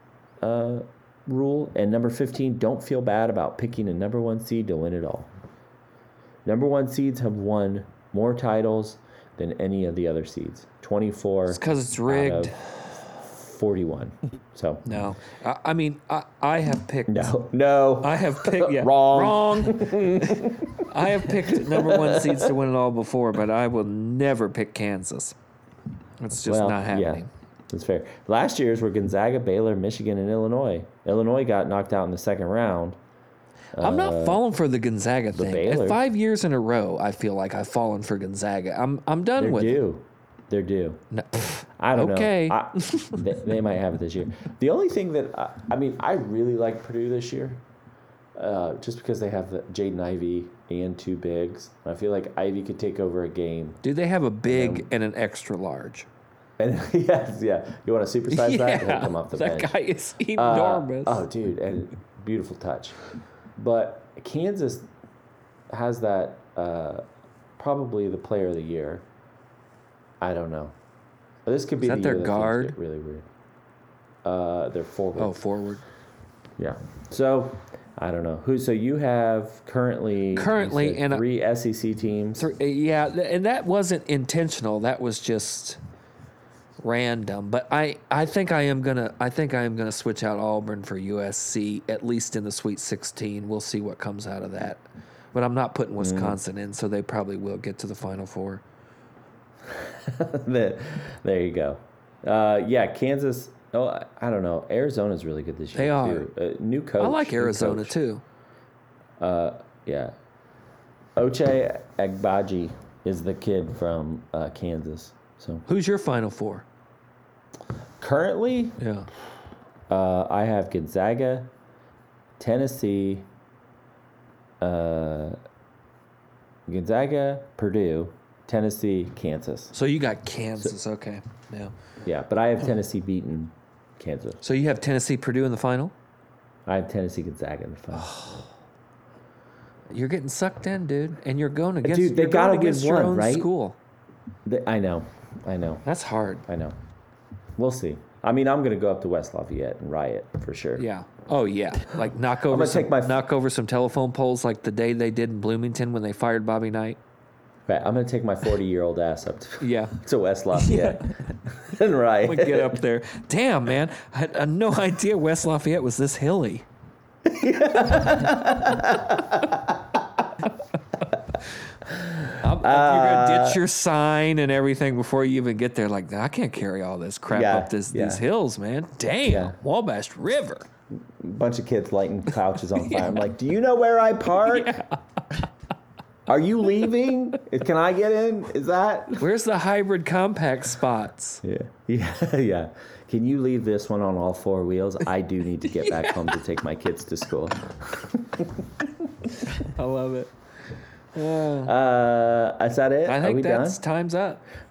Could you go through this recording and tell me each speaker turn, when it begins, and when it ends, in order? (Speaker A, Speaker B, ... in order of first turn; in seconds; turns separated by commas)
Speaker A: 0.4-5.3, Speaker A: 6.5-12.5, Speaker B: 11.5-13.0, Speaker A: 13.2-14.9, Speaker B: 14.9-17.3, Speaker A: 17.1-22.5, Speaker B: 18.0-25.4, Speaker B: 26.2-27.3, Speaker A: 26.5-33.0, Speaker A: 33.7-34.4, Speaker B: 33.8-39.8, Speaker A: 35.3-36.0, Speaker A: 39.4-41.0, Speaker B: 41.1-43.3, Speaker A: 41.8-47.6, Speaker A: 48.4-53.8, Speaker B: 53.8-56.1, Speaker A: 54.5-54.9, Speaker A: 56.6-59.8, Speaker B: 58.3-61.2, Speaker A: 60.4-63.0, Speaker A: 63.6-64.9, Speaker A: 65.7-67.0, Speaker A: 67.6-69.0, Speaker A: 70.2-70.8, Speaker A: 71.5-73.3, Speaker B: 71.8-72.8, Speaker A: 74.2-75.4, Speaker B: 75.2-75.8, Speaker A: 76.6-82.5, Speaker B: 80.3-81.2, Speaker B: 82.4-85.8, Speaker B: 86.8-94.8, Speaker B: 95.3-98.6, Speaker A: 96.0-96.4, Speaker A: 99.7-108.0, Speaker B: 105.8-106.3, Speaker B: 107.0-108.2, Speaker A: 109.2-110.1, Speaker A: 111.2-115.7, Speaker B: 115.7-116.7, Speaker A: 118.0-118.8, Speaker B: 118.8-119.1, Speaker A: 119.9-121.5, Speaker A: 122.4-123.3, Speaker A: 124.6-125.4, Speaker A: 126.7-129.7, Speaker B: 129.7-131.7, Speaker A: 132.0-134.4, Speaker B: 134.4-135.9, Speaker A: 136.7-138.2, Speaker B: 139.9-143.8, Speaker A: 141.8-143.5, Speaker A: 144.5-145.8, Speaker B: 145.9-146.4, Speaker A: 146.5-146.8, Speaker A: 147.6-150.9, Speaker B: 150.8-157.0, Speaker A: 152.5-153.3, Speaker A: 157.7-162.8, Speaker B: 159.6-160.0, Speaker B: 160.6-161.1, Speaker B: 162.2-166.7, Speaker A: 167.2-170.1, Speaker A: 171.9-173.6, Speaker B: 172.2-180.7, Speaker A: 177.3-178.2, Speaker A: 179.3-179.6, Speaker A: 181.2-184.8, Speaker B: 182.8-183.2, Speaker B: 184.4-185.0, Speaker A: 186.3-189.3, Speaker B: 189.2-191.4, Speaker A: 191.4-198.9, Speaker B: 199.5-200.3, Speaker B: 201.2-201.7, Speaker A: 201.7-203.8, Speaker B: 203.1-204.4